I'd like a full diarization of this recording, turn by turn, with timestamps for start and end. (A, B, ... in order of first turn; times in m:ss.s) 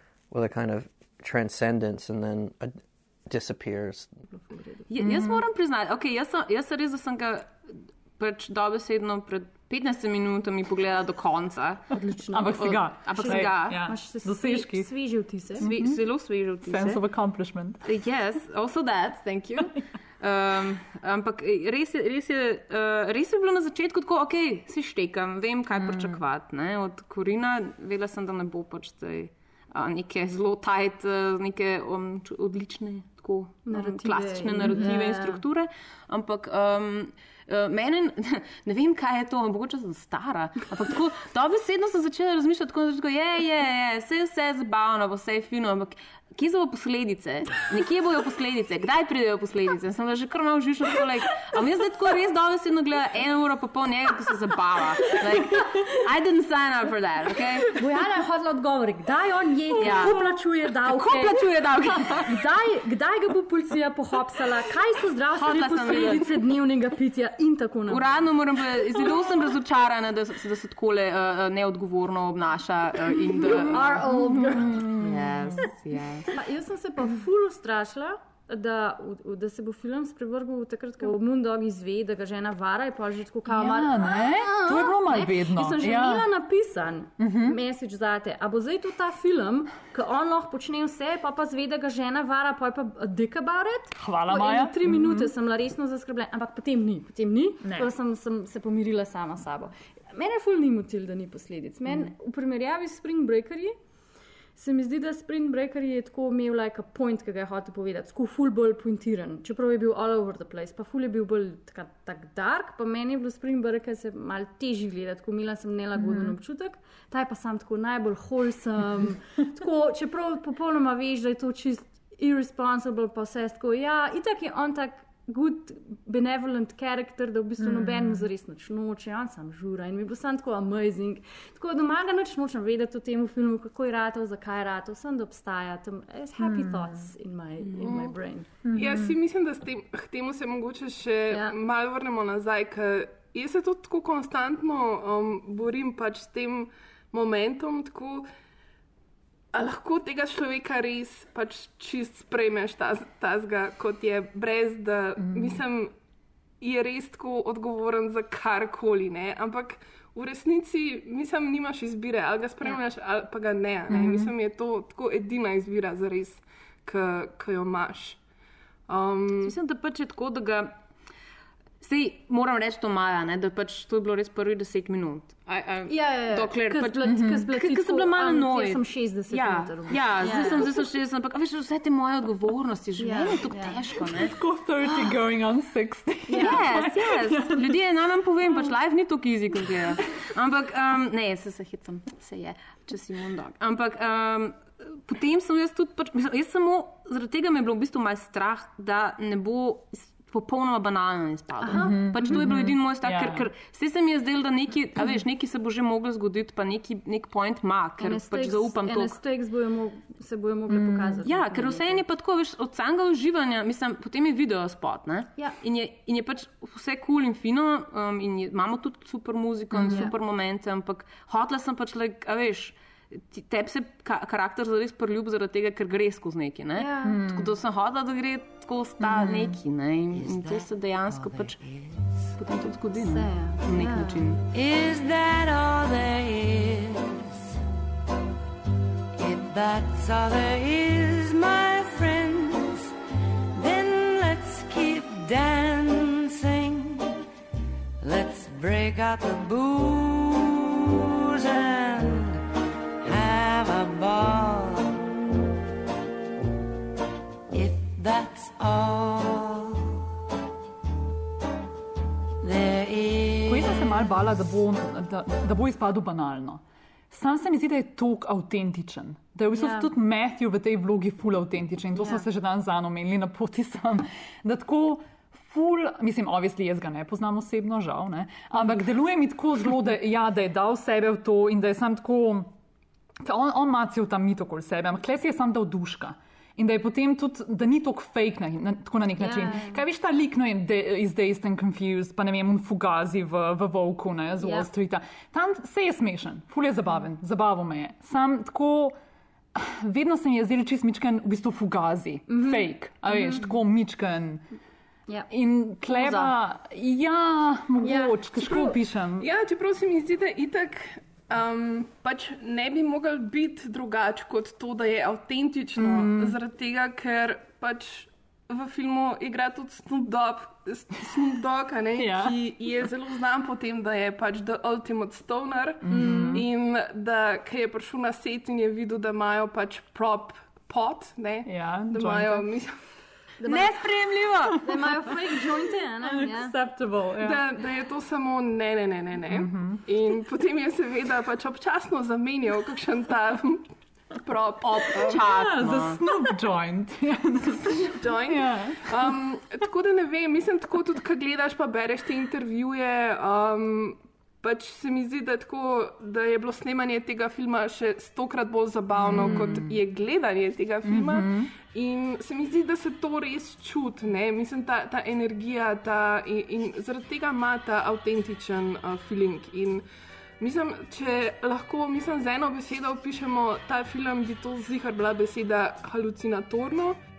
0:00.3-0:04.1 A
0:04.3-0:04.9 B
0:04.9-0:11.9 C
0:05.0-0:05.4 D
0:11.9-0:15.7 B
0:12.3-0:17.8 D
0:12.6-0:13.8 C
0:15.6-0:17.0 C
0:17.8-0:57.7 C
0:25.8-0:26.2 D
0:33.7-0:35.4 B
0:57.8-1:01.4 B
0:59.8-1:00.2 D
0:59.8-1:00.2 C
1:00.9-1:02.3 C
1:02.3-1:08.0 B
1:05.4-1:06.2 C
1:07.9-1:14.1 C
1:13.4-1:15.6 D
1:13.5-1:14.7 B
1:14.7-1:16.3 C
1:16.3-1:43.8 B
1:23.5-1:26.3 D
1:27.2-1:27.6 D
1:34.0-1:35.3 D
1:37.6-1:37.9 D
1:44.6-2:18.5 B
1:56.0-1:56.4 D
2:07.6-2:08.3 D
2:16.4-2:17.0 D
2:17.8-2:18.2 E
2:18.6-2:19.1 D
2:18.7-2:28.3 E
2:29.5-2:35.9 E
2:35.2-2:35.6 D
2:36.6-2:48.2 E
2:43.9-2:44.3 D
2:48.9-2:49.6 E
2:49.4-2:50.8 C
2:51.8-3:04.3 C
2:55.9-3:00.7 B
2:57.0-2:57.5 D
3:03.0-3:03.8 B
3:04.0-3:07.7 D
3:06.3-3:06.6 B
3:06.4-3:29.2 C
3:21.6-3:22.5 B
3:21.7-3:23.5 D
3:28.0-3:32.0 B
3:30.7-3:31.2 D
3:31.2-3:51.6 C
3:39.7-3:40.1 D
3:39.9-3:40.1 B
3:46.8-3:47.2 B
3:47.0-3:47.6 D
3:49.0-3:49.6 D
3:50.1-3:52.2 F
3:52.4-3:54.4 C
3:53.0-3:54.3 B
3:54.5-3:57.3 F
3:59.2-4:02.9 F
4:03.6-4:07.1 F
4:08.0-4:12.4 F
4:13.0-4:15.0 F
4:17.5-4:19.9 F
4:22.4-4:24.0 F
4:23.5-4:42.5 D
4:29.6-4:29.9 B
4:32.0-4:32.2 B
4:43.2-4:58.9 D
4:49.2-4:49.8 B
4:54.4-4:54.7 B
4:59.6-5:04.4 D
5:02.3-5:03.5 B
5:05.3-5:09.3 D
5:05.9-5:06.3 B
5:07.8-5:08.8 B
5:09.2-5:32.8 E
5:15.8-5:16.4 D
5:22.0-5:22.4 D
5:25.8-5:26.5 D
5:25.9-5:26.4 B
5:31.5-5:32.5 D
5:33.4-5:33.8 B
5:33.4-5:34.6 C
5:34.6-5:36.6 B
5:36.0-5:37.5 D
5:37.2-5:43.6 E
5:39.3-5:39.8 D
5:44.2-5:45.2 E
5:44.6-5:46.0 C
5:45.0-5:49.1 D
5:47.8-6:09.8 E
5:59.0-5:59.8 D
6:00.8-6:01.5 D
6:10.4-6:17.0 E